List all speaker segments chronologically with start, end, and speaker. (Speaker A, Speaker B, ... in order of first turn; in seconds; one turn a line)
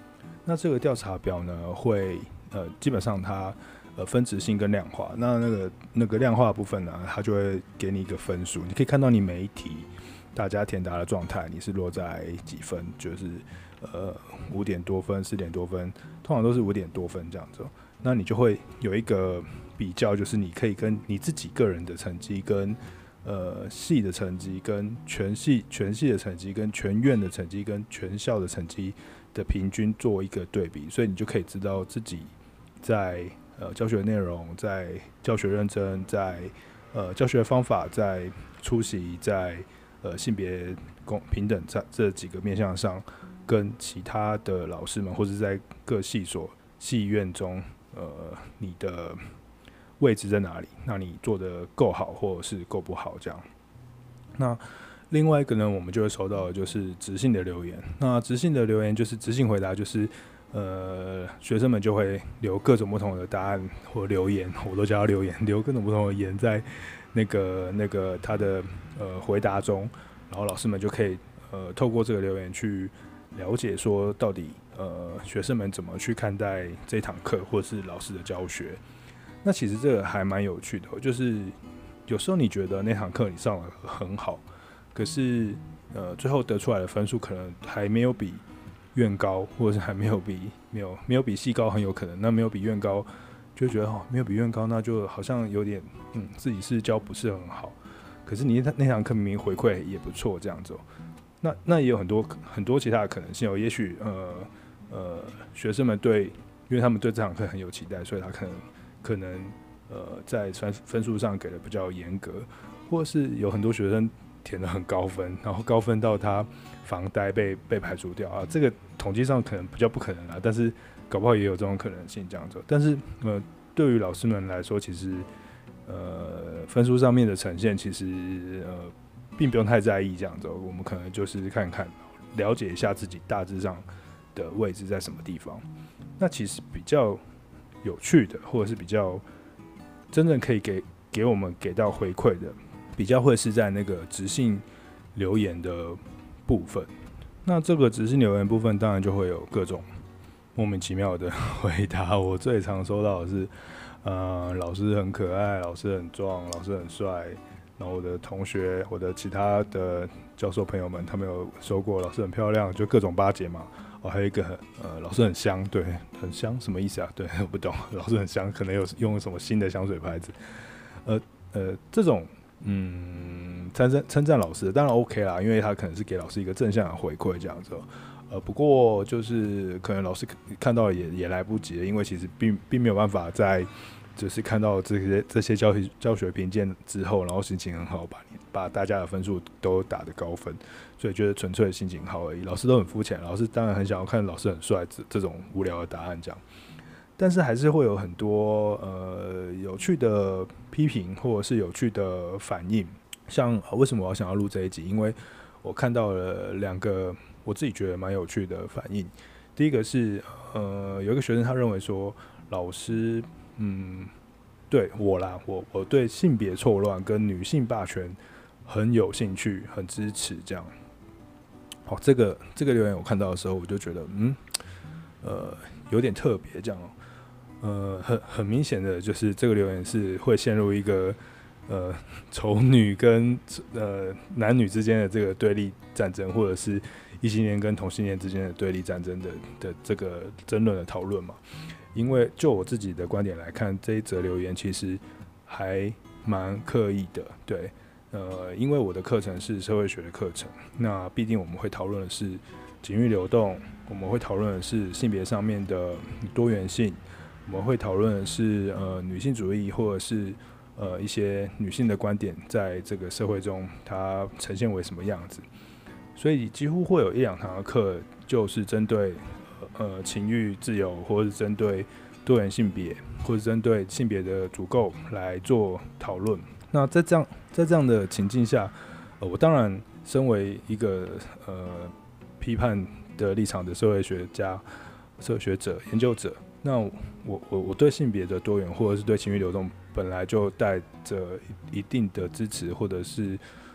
Speaker A: 0.4-49.2
Speaker A: 50.0-53.5
Speaker A: 54.4-78.8
Speaker A: 79.4-100.8
Speaker A: 101.4-125.3
Speaker A: 125.8-135.6
Speaker A: 136.2-137.2
Speaker A: 137.8-139.2
Speaker A: 140.1-146.9
Speaker A: 147.4-149.9
Speaker A: 150.5-170.3
Speaker A: 171.0-196.4
Speaker A: 197.2-214.1
Speaker A: 214.7-220.7
Speaker A: 221.8-224.4
Speaker A: 225.2-226.9
Speaker A: 227.6-241.4
Speaker A: 241.9-265.4
Speaker A: 266.1-284.6
Speaker A: 285.2-293.4